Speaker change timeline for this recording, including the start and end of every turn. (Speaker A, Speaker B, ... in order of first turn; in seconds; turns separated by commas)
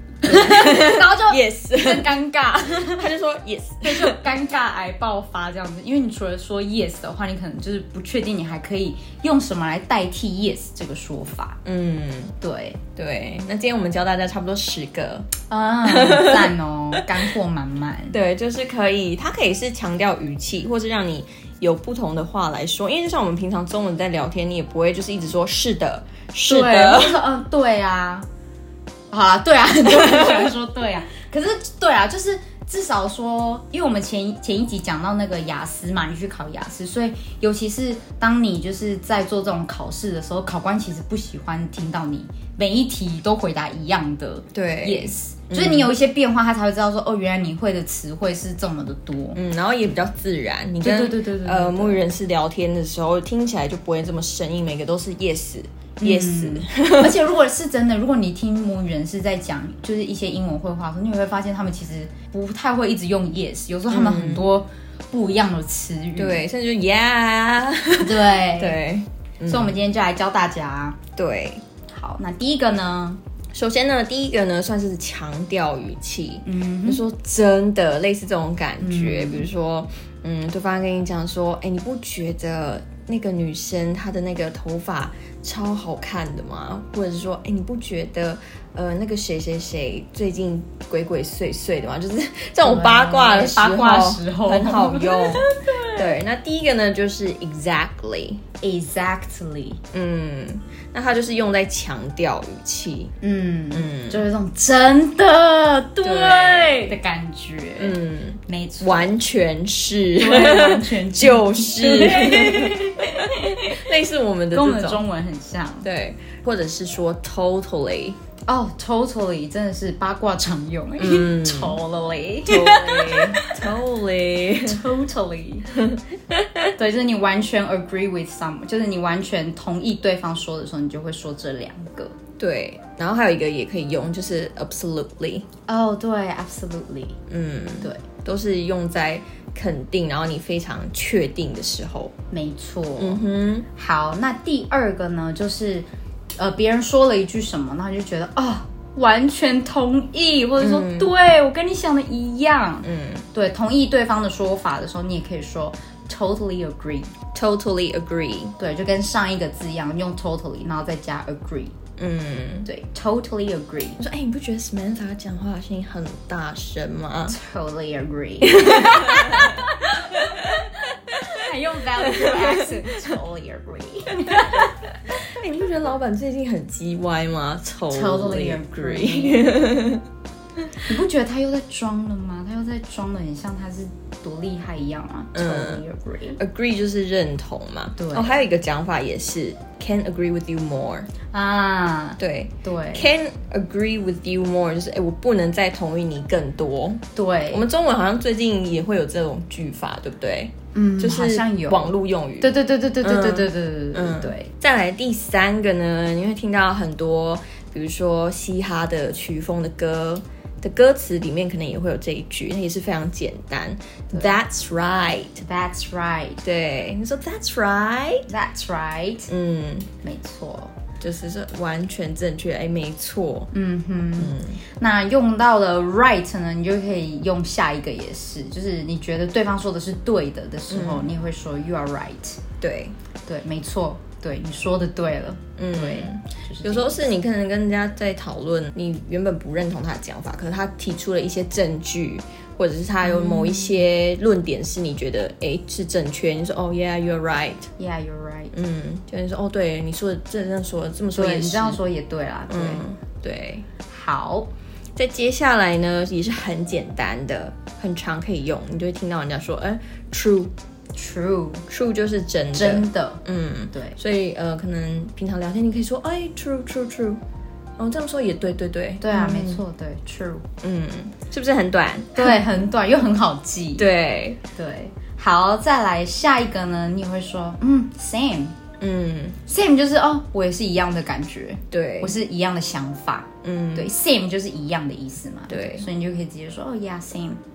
Speaker A: 0.2-3.1, Speaker B: 0.2-4.2, Speaker A: 3.8-11.6, Speaker B: 11.6-12.3, Speaker A: 12.4-12.8, Speaker B: 13.0-15.3, Speaker A: 15.5-18.2, Speaker B: 15.9-17.0, Speaker B: 18.1-27.2, Speaker A: 26.4-28.3, Speaker A: 29.1-49.4, Speaker B: 30.0-30.5, Speaker B: 44.5-45.9, Speaker B: 49.3-57.2, Speaker A: 50.8-52.0, Speaker A: 56.0-66.4, Speaker B: 63.9-64.5, Speaker B: 66.2-69.8, Speaker A: 68.0-68.8, Speaker A: 69.5-71.0, Speaker B: 71.2-71.6, Speaker A: 71.9-73.2, Speaker B: 73.5-98.4, Speaker A: 76.5-77.0, Speaker A: 78.8-79.5, Speaker A: 92.6-96.2, Speaker A: 98.6-99.8, Speaker B: 99.9-103.1, Speaker A: 103.2-109.2, Speaker B: 103.7-104.2, Speaker B: 106.0-107.0, Speaker B: 107.8-115.0, Speaker A: 110.2-113.8, Speaker A: 114.5-115.9, Speaker B: 115.8-118.2, Speaker A: 118.5-123.6, Speaker B: 121.0-121.8, Speaker B: 122.5-124.8, Speaker A: 124.7-125.7, Speaker B: 125.7-126.7, Speaker A: 126.8-132.2, Speaker B: 132.4-135.5, Speaker A: 135.7-137.2, Speaker B: 137.3-142.1, Speaker A: 142.3-143.2, Speaker B: 143.0-143.7, Speaker A: 143.7-157.1, Speaker B: 150.6-151.1, Speaker B: 152.8-153.3, Speaker B: 157.3-158.6, Speaker A: 158.6-161.7, Speaker B: 162.0-162.7, Speaker A: 162.7-164.0, Speaker B: 164.0-167.4, Speaker A: 167.3-174.7, Speaker B: 168.4-170.7, Speaker B: 172.1-172.6, Speaker B: 174.3-180.1, Speaker A: 177.9-179.6, Speaker A: 180.8-186.4, Speaker B: 185.3-185.8, Speaker B: 186.4-191.1, Speaker A: 188.0-188.4, Speaker A: 191.3-193.1, Speaker B: 192.2-215.4, Speaker A: 197.2-197.7, Speaker A: 200.7-204.5, Speaker A: 215.4-216.4, Speaker B: 216.4-218.3, Speaker A: 218.3-219.3, Speaker B: 219.3-219.9, Speaker A: 220.0-220.7, Speaker B: 221.0-223.5, Speaker A: 223.5-232.4, Speaker B: 224.2-224.6, Speaker B: 230.7-231.1, Speaker B: 232.6-232.9, Speaker A: 233.3-237.0, Speaker B: 235.6-247.7, Speaker A: 243.0-243.8, Speaker A: 247.8-248.5, Speaker B: 248.5-251.8, Speaker A: 251.1-252.8, Speaker B: 252.5-253.7, Speaker A: 253.9-254.5, Speaker B: 255.0-260.5, Speaker A: 260.9-261.6, Speaker B: 261.7-267.2, Speaker A: 262.5-264.0, Speaker B: 267.8-269.6, Speaker A: 269.0-270.5, Speaker B: 270.6-272.4, Speaker A: 272.1-273.9, Speaker B: 273.8-274.4, Speaker A: 274.6-278.6, Speaker B: 278.8-279.4, Speaker A: 279.5-287.4, Speaker B: 281.7-282.2, Speaker B: 283.4-283.9, Speaker B: 285.5-285.9